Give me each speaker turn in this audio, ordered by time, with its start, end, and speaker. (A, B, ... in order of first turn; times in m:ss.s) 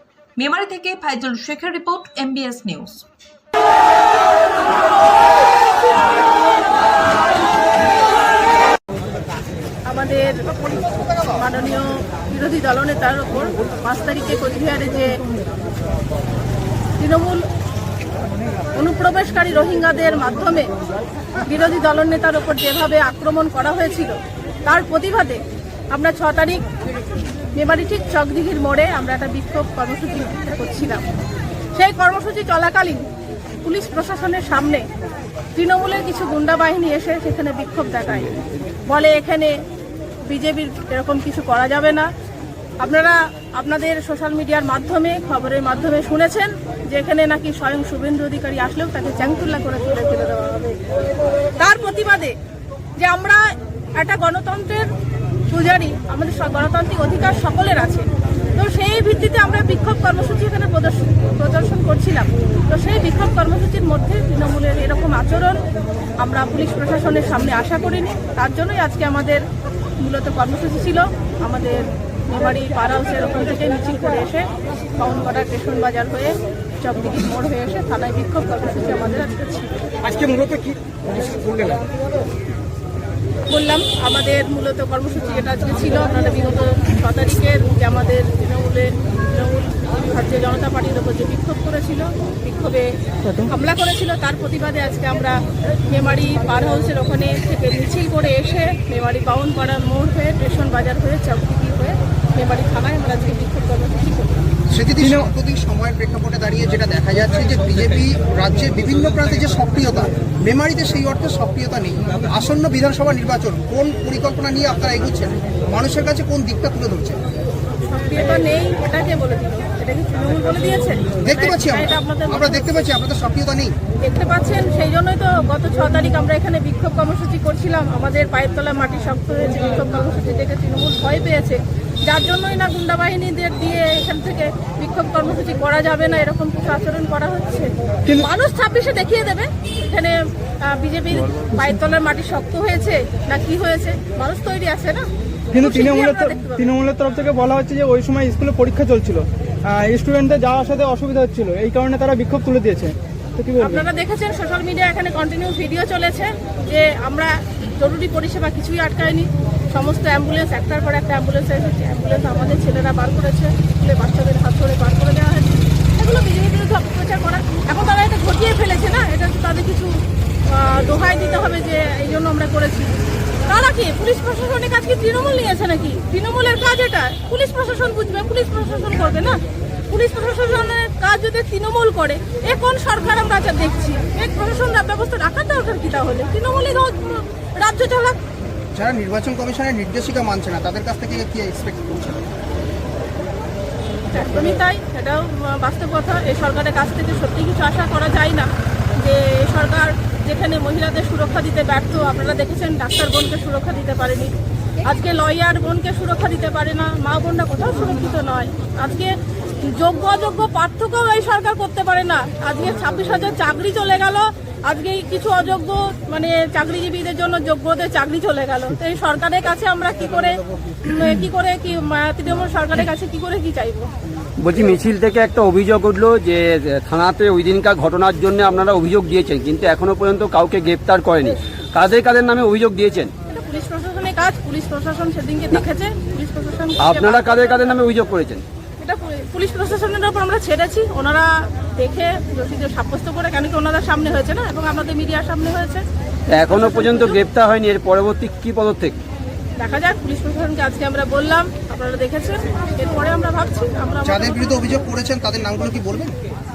0:00.4-0:03.0 A
0:09.9-0:10.4 B
0:11.3-0:15.2 B
0:17.0-0:17.4 B
0:18.8-0:20.7 B
0:21.4-0:26.6 B
0:27.6-0:31.0 B
0:31.7-0:33.0 B
0:33.6-0:34.8 B
0:35.6-0:39.6 B
0:40.3-0:42.1 B
0:42.8-0:50.8 B
0:51.6-0:52.3 B
0:53.0-0:53.4 B
0:54.0-0:54.9 B
0:55.5-0:58.0 B
0:58.6-1:05.6 B
1:06.2-1:09.4 B
1:10.0-1:19.9 B
1:20.1-1:20.6 C
1:21.2-1:21.8 C
1:23.5-1:32.9 B
1:33.4-1:44.5 B
1:44.7-1:57.2 C
1:45.0-1:45.3 D
1:57.9-2:02.8 B
2:01.2-2:03.7 C
2:04.0-2:25.0 B
2:25.5-2:33.8 D
2:25.6-2:26.7 B
2:33.6-2:49.9 B
2:50.5-2:53.0 B
2:53.5-3:08.2 B
3:08.8-3:12.2 C
3:14.1-3:24.3 B
3:24.8-3:43.9 B
3:44.4-3:53.1 E
3:53.3-3:57.8 B
3:56.8-3:58.4 E
3:58.8-4:05.8 B
4:06.3-4:09.0 E
4:06.4-4:07.2 B
4:09.6-4:14.9 B
4:14.0-4:16.2 C